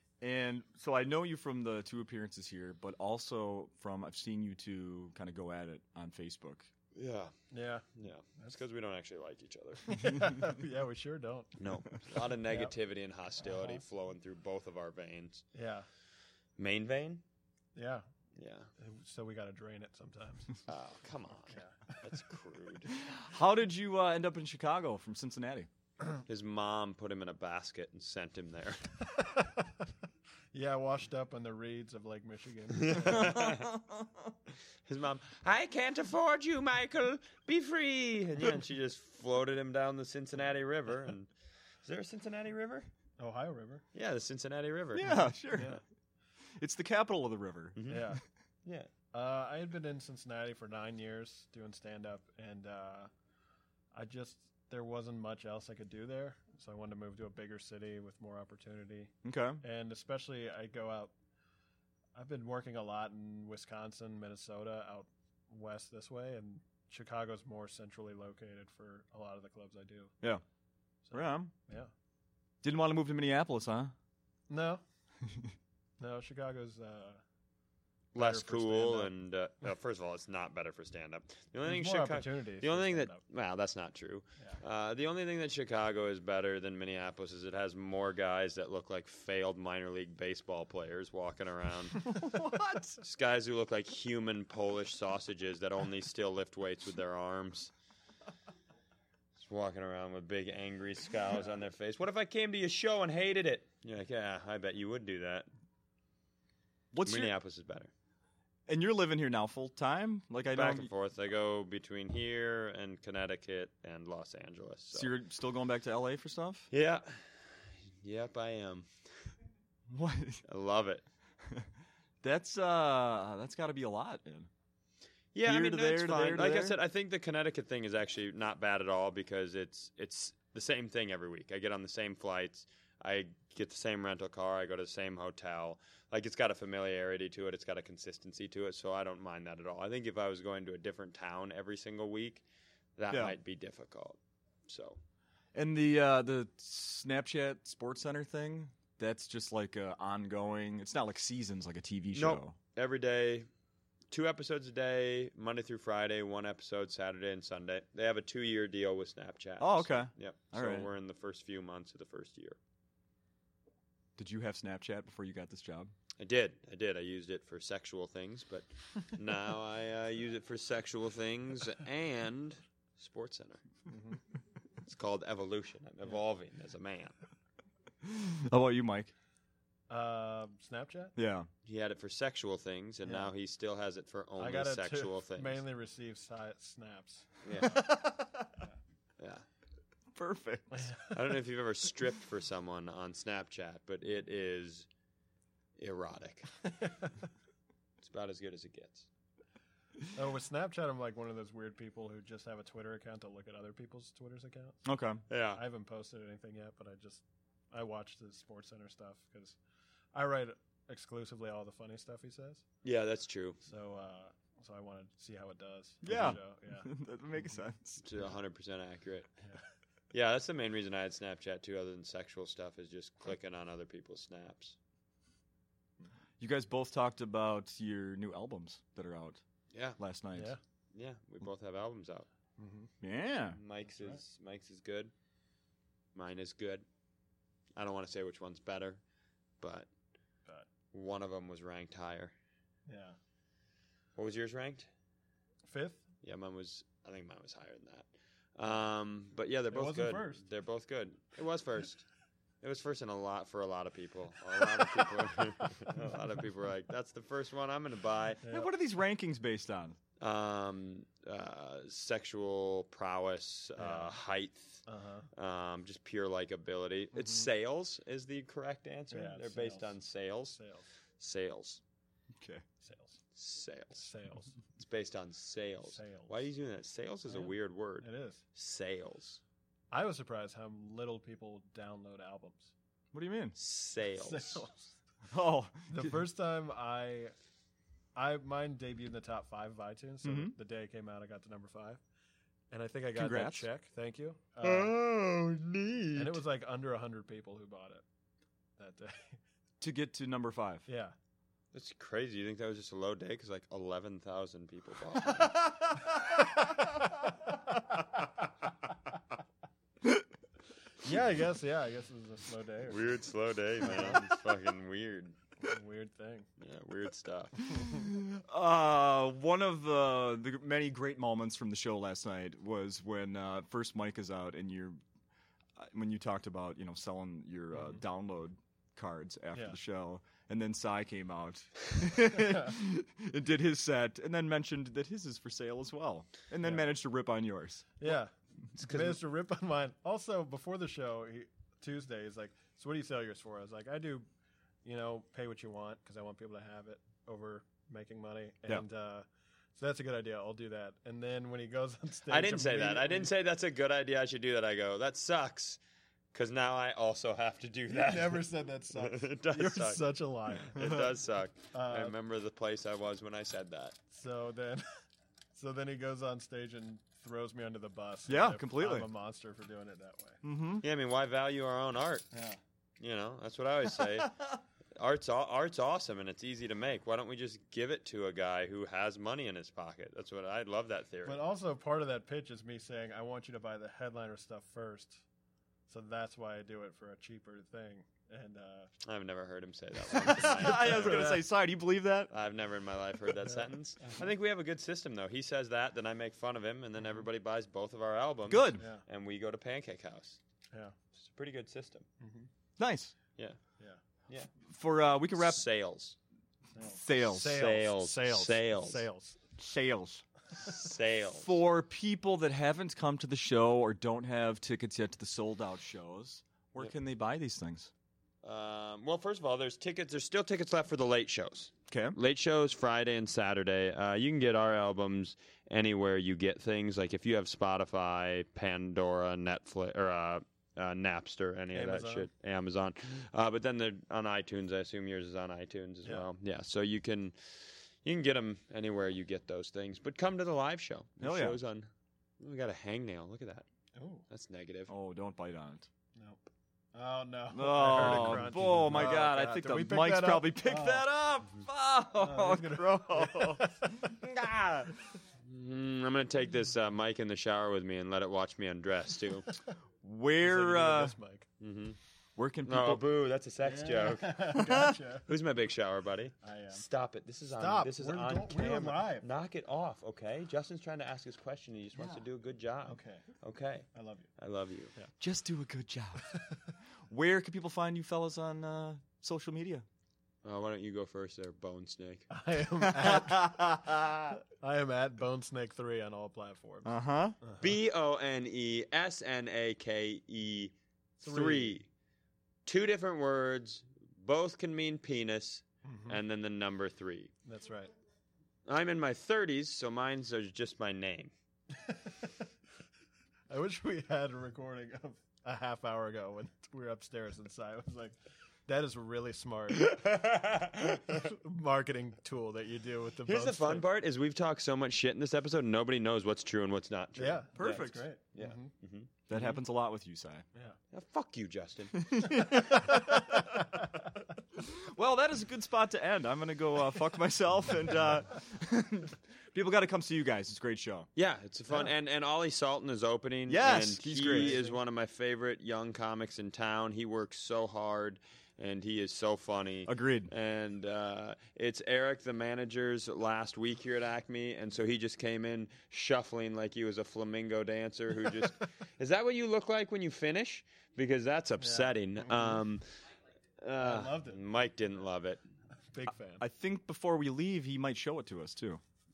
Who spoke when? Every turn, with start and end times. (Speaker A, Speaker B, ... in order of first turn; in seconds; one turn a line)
Speaker A: 0.2-6.7
Speaker B: 7.0-7.3
Speaker C: 7.5-7.9
Speaker B: 8.0-10.3
Speaker C: 9.9-11.6
Speaker B: 11.6-15.4
Speaker C: 12.3-12.8
Speaker C: 13.4-13.8
Speaker C: 15.5-15.9
Speaker B: 16.6-17.2
Speaker C: 17.8-18.1
Speaker B: 18.4-18.7
Speaker C: 18.8-20.6
Speaker B: 20.7-22.9
Speaker C: 21.5-21.8
Speaker A: 22.9-25.7
Speaker B: 26.3-28.9
Speaker C: 29.1-29.7
Speaker C: 30.5-33.4
Speaker B: 32.7-33.7
Speaker A: 33.4-33.8
Speaker B: 34.9-41.3
Speaker B: 41.8-42.9
Speaker C: 43.2-43.8
Speaker B: 43.9-45.8
Speaker A: 45.0-45.8
Speaker A: 46.6-48.2
Speaker B: 47.8-48.1
Speaker C: 47.9-48.2
Speaker C: 49.1-53.1
Speaker C: 53.9-61.1
Speaker A: 59.2-59.6
Speaker C: 62.1-70.2
Speaker C: 71.1-71.9
Speaker A: 71.1-71.5
Speaker A: 72.6-73.9
Speaker C: 74.5-74.8
Speaker C: 76.0-77.2
Speaker B: 78.2-92.1
Speaker C: 78.2-79.1
Speaker C: 81.7-83.2
Speaker A: 92.2-93.0
Speaker B: 93.0-97.7
Speaker B: 99.4-105.5
Speaker A: 106.9-107.3
Speaker B: 107.0-107.9
Speaker A: 108.7-110.9
Speaker B: 110.5-115.1
Speaker A: 114.9-116.7
Speaker B: 116.7-117.4
Speaker B: 118.0-118.9
Speaker A: 119.9-120.4
Speaker B: 120.5-121.0
Speaker A: 122.2-124.5
Speaker B: 125.3-142.4
Speaker A: 125.5-126.8
Speaker B: 143.0-145.0
Speaker A: 143.1-143.3
Speaker A: 145.5-152.6
Speaker B: 152.1-153.5
Speaker B: 154.1-162.6
Speaker A: 159.6-160.9
Speaker A: 164.2-165.9
Speaker B: 166.2-173.6
Speaker C: 173.9-174.2
Speaker B: 174.8-177.1
Speaker A: 178.0-179.1
Speaker C: 179.9-181.1
Speaker A: 181.2-181.5
Speaker B: 181.7-185.6
Speaker C: 183.1-183.3
Speaker C: 184.4-188.1
Speaker B: 187.4-187.8
Speaker A: 187.7-188.6
Speaker B: 189.2-189.4
Speaker A: 190.2-190.9
Speaker C: 190.7-191.3
Speaker B: 191.1-194.9
Speaker B: 195.8-196.5
Speaker B: 198.0-199.1
Speaker C: 200.1-204.8
Speaker A: 204.8-205.2
Speaker B: 205.3-205.6
Speaker C: 205.6-209.6
Speaker C: 210.1-212.6
Speaker B: 212.8-213.6
Speaker C: 213.6-216.9
Speaker A: 216.0-218.0
Speaker B: 218.0-219.3
Speaker B: 220.1-224.8
Speaker A: 226.4-229.4
Speaker B: 229.7-230.0
Speaker A: 230.0-230.5
Speaker C: 230.3-230.6
Speaker B: 230.9-232.3
Speaker C: 232.6-232.9
Speaker A: 233.0-233.6
Speaker B: 233.5-235.1
Speaker C: 233.9-234.2
Speaker B: 236.2-236.8
Speaker B: 237.8-239.0
Speaker B: 239.6-239.9
Speaker B: 240.9-242.3
Speaker C: 242.9-243.2
Speaker B: 244.2-244.9
Speaker C: 245.7-246.0
Speaker B: 246.2-252.1
Speaker C: 249.7-250.4
Speaker B: 252.6-258.4
Speaker C: 258.4-258.7
Speaker A: 258.5-260.0
Speaker B: 260.2-264.8
Speaker C: 263.8-264.1
Speaker C: 264.9-265.3
Speaker B: 265.4-270.6
Speaker C: 267.1-267.5
Speaker C: 269.1-269.9
Speaker C: 270.5-270.9
Speaker B: 271.2-271.8
Speaker A: 272.4-272.6
Speaker C: 272.8-273.2
Speaker B: 273.4-274.1
Speaker C: 274.0-274.5
Speaker B: 274.8-279.4
Speaker C: 276.0-276.4
Speaker C: 277.3-278.4
Speaker C: 279.9-282.7
Speaker A: 283.1-283.6
Speaker B: 283.6-284.7
Speaker C: 284.2-284.8
Speaker A: 285.3-286.2
Speaker C: 285.9-287.3
Speaker C: 288.2-292.0
Speaker A: 290.2-290.5
Speaker C: 292.7-294.9
Speaker A: 293.1-293.7
Speaker B: 294.6-296.4
Speaker C: 296.2-298.0
Speaker C: 298.8-299.4
Speaker A: 299.8-300.9
Speaker C: 300.9-301.1
Speaker B: 301.7-305.8
Speaker A: 305.4-306.9
Speaker C: 311.0-313.2
Speaker B: 312.9-315.4
Speaker C: 313.8-314.2
Speaker C: 315.6-316.5
Speaker B: 316.6-317.6
Speaker A: 317.7-325.0
Speaker A: 325.8-338.1
Speaker C: 332.4-332.7
Speaker C: 336.6-336.9
Speaker C: 338.0-344.3
Speaker B: 338.8-339.2
Speaker C: 344.9-349.2
Speaker C: 349.8-353.3
Speaker B: 352.3-355.8
Speaker B: 356.3-364.0
Speaker C: 357.9-361.1
Speaker A: 360.8-361.1
Speaker C: 361.7-362.2
Speaker C: 364.1-364.8
Speaker C: 365.6-370.4
Speaker A: 368.3-369.1
Speaker A: 370.4-370.8
Speaker B: 370.8-372.3
Speaker C: 372.3-372.6
Speaker B: 373.0-374.4
Speaker B: 375.0-381.4
Speaker C: 381.3-385.2
Speaker C: 385.9-388.9
Speaker B: 389.0-391.4
Speaker A: 390.1-392.3
Speaker C: 390.2-391.5
Speaker B: 392.3-400.4
Speaker C: 393.5-394.1
Speaker A: 398.5-398.8
Speaker C: 398.8-399.0
Speaker B: 401.1-402.1
Speaker C: 402.2-402.5
Speaker A: 402.8-403.1
Speaker A: 404.6-405.6
Speaker B: 405.4-406.2
Speaker C: 406.8-409.4
Speaker A: 406.9-407.6
Speaker B: 407.3-409.0
Speaker A: 409.6-410.2
Speaker B: 410.6-411.6
Speaker A: 411.4-417.9
Speaker B: 418.4-441.9
Speaker A: 421.9-422.2
Speaker C: 431.7-432.3
Speaker A: 441.2-441.6
Speaker B: 442.4-443.7
Speaker C: 443.9-444.2
Speaker B: 444.3-444.9
Speaker A: 444.9-445.9
Speaker C: 446.1-451.1
Speaker A: 447.5-454.9
Speaker C: 452.2-454.1
Speaker B: 455.4-459.5
Speaker A: 460.0-461.1
Speaker C: 460.4-461.5
Speaker B: 461.6-462.0
Speaker A: 462.4-463.0
Speaker B: 462.6-464.6
Speaker C: 463.6-465.3
Speaker A: 464.5-465.0
Speaker B: 465.3-474.9
Speaker C: 466.4-466.8
Speaker C: 467.6-469.3
Speaker C: 472.9-473.3
Speaker C: 473.9-474.3
Speaker A: 475.2-476.3
Speaker A: 477.1-479.9
Speaker B: 480.4-482.3
Speaker C: 482.3-486.9
Speaker A: 482.8-484.4
Speaker A: 486.9-487.4
Speaker C: 487.4-487.7
Speaker B: 487.6-491.9
Speaker C: 491.2-491.8
Speaker B: 492.7-497.3
Speaker C: 495.9-496.2
Speaker C: 497.4-497.9
Speaker B: 498.7-501.3
Speaker C: 501.8-502.4
Speaker C: 503.5-508.1
Speaker C: 508.7-510.1
Speaker B: 509.7-511.3
Speaker C: 511.1-513.9
Speaker B: 513.3-519.5
Speaker C: 517.2-518.7
Speaker A: 517.6-518.1
Speaker A: 519.3-520.4
Speaker B: 520.9-522.0
Speaker A: 522.0-523.6
Speaker C: 522.5-523.9
Speaker A: 524.5-531.1
Speaker B: 531.2-552.9
Speaker A: 533.5-534.6
Speaker C: 534.2-534.8
Speaker A: 539.9-540.3
Speaker C: 551.6-552.6
Speaker B: 553.6-555.4
Speaker C: 553.8-554.4
Speaker C: 555.9-556.4
Speaker A: 556.1-558.8